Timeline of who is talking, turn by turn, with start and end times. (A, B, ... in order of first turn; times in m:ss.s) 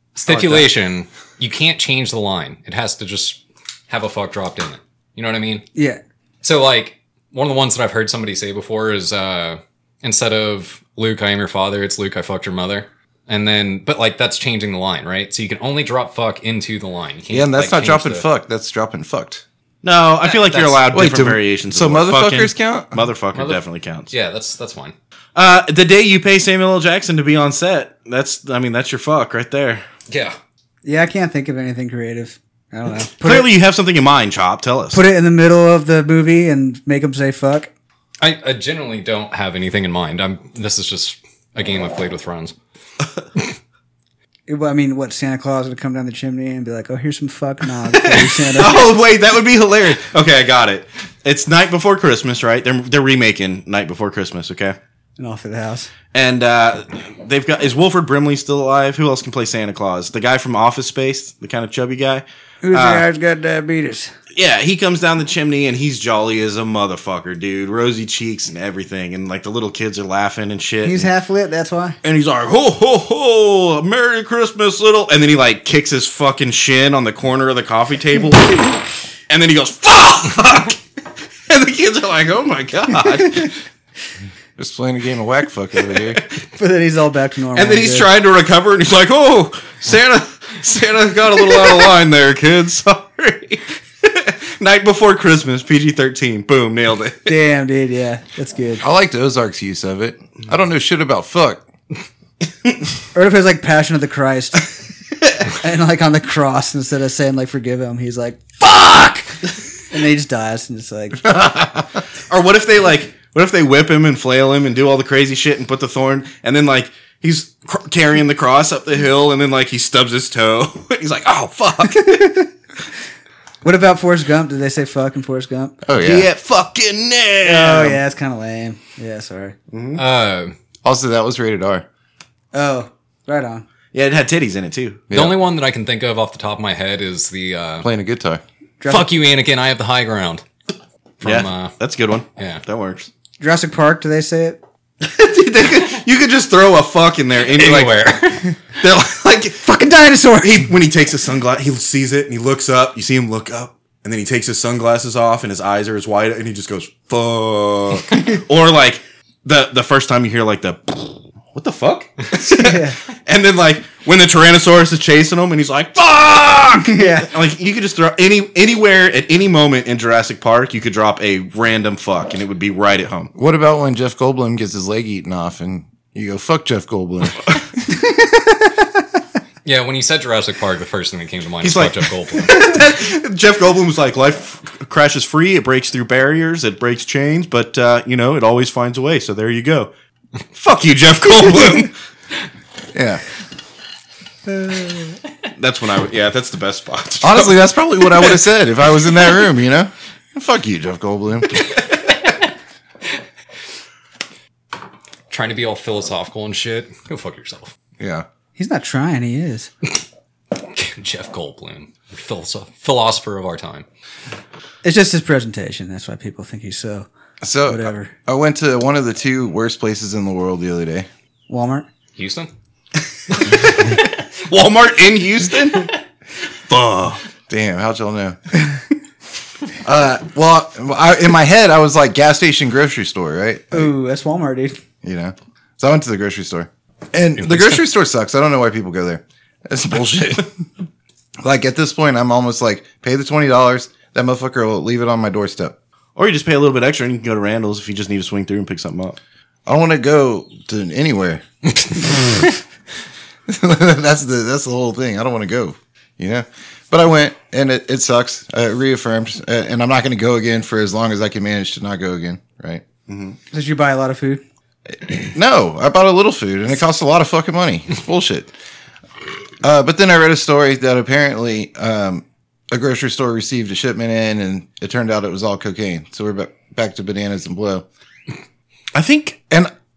0:00.1-0:05.6 A
0:00.3-0:00.7 B
0:05.7-0:06.0 C
0:06.4-0:18.2 A
0:17.3-0:19.4 D
0:19.8-0:24.1 B
0:20.2-0:20.9 A
0:20.9-0:23.0 D
0:23.3-0:24.9 A
0:25.3-0:29.8 B
0:30.1-0:30.4 A
0:30.8-0:33.5 C
0:33.2-0:35.0 B
0:34.9-0:37.7 C
0:38.2-0:42.5 A
0:44.5-0:48.9 C
0:47.9-0:54.8 B
0:55.2-0:55.9 C
0:56.1-1:03.0 B
1:02.6-1:04.1 C
1:04.3-1:11.1 B
1:10.8-1:12.0 C
1:12.0-1:20.8 B
1:21.5-1:23.6 B
1:24.6-1:26.2 D
1:25.9-1:26.2 B
1:26.5-1:28.1 C
1:27.5-1:37.3 B
1:37.2-1:38.8 C
1:38.8-1:41.6 D
1:43.1-1:44.7 C
1:45.4-1:51.3 C
1:52.3-2:02.4 B
2:01.9-2:02.4 C
2:03.6-2:05.8 C
2:05.8-2:06.3 D
2:06.0-2:08.0 B
2:07.4-2:09.5 C
2:09.7-2:10.0 B
2:10.0-2:10.5 A
2:10.8-2:11.8 D
2:12.5-2:13.6 C
2:13.9-2:15.0 B
2:15.1-2:15.4 D
2:15.1-2:17.9 A
2:17.8-2:18.4 D
2:18.8-2:19.1 C
2:18.9-2:20.4 A
2:21.2-2:21.7 A
2:21.2-2:23.1 B
2:22.4-2:22.6 A
2:23.4-2:24.6 C
2:25.0-2:28.1 B
2:27.4-2:28.6 A
2:28.7-2:29.7 B
2:29.6-2:30.7 C
2:30.4-2:53.3 B
2:42.4-2:43.0 C
2:46.8-2:47.3 C
2:53.3-2:57.7 D
2:59.6-3:02.7 A
3:01.6-3:09.9 B
3:10.5-3:11.9 B
3:12.9-3:13.2 D
3:15.6-3:17.6 B
3:17.2-3:21.6 D
3:25.3-3:27.7 A
3:28.0-3:28.2 D
3:28.6-3:29.7 C
3:30.6-3:33.8 A
3:34.8-3:37.1 C
3:37.4-3:41.1 D
3:37.7-3:38.1 C
3:41.5-3:41.9 C
3:42.2-3:42.5 A
3:43.3-3:45.9 B
3:46.7-3:47.2 B
3:47.5-3:48.5 D
3:49.8-3:53.9 D
3:53.7-3:54.8 C
3:55.0-4:00.6 D
3:57.4-3:57.8 A
4:01.4-4:05.7 D
4:06.2-4:09.2 B
4:09.6-4:11.4 D
4:13.5-4:22.8 D
4:23.1-4:23.4 B
4:23.5-4:24.4 C
4:25.0-4:28.5 D
4:29.6-4:37.8 D
4:38.9-4:39.4 B